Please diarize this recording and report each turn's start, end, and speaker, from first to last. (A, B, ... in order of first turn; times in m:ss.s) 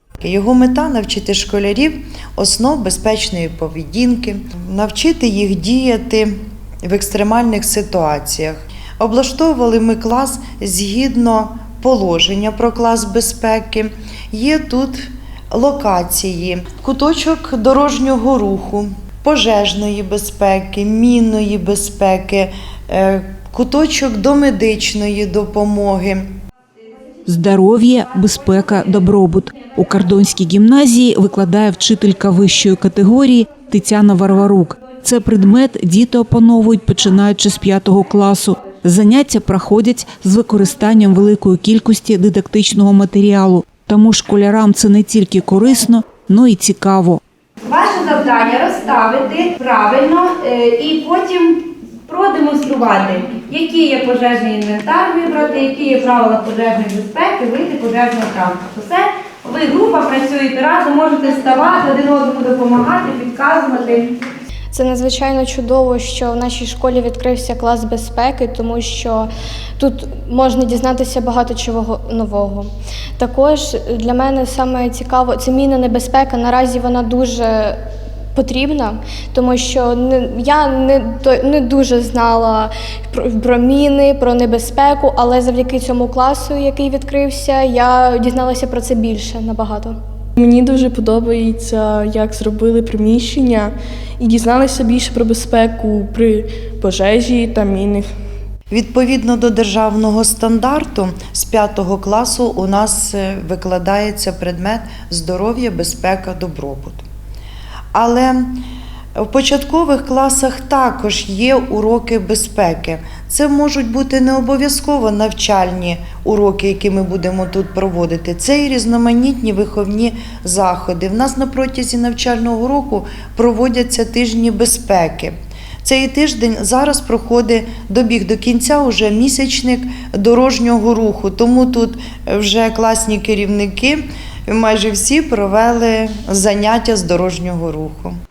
0:00.2-0:26.2 A
0:27.2-0:47.2 B
0:47.6-1:04.1 C
1:04.7-1:17.8 D
1:18.3-1:30.0 D
1:30.4-1:38.1 E
1:38.7-1:47.0 A
1:47.9-1:48.6 A
1:49.2-2:18.1 A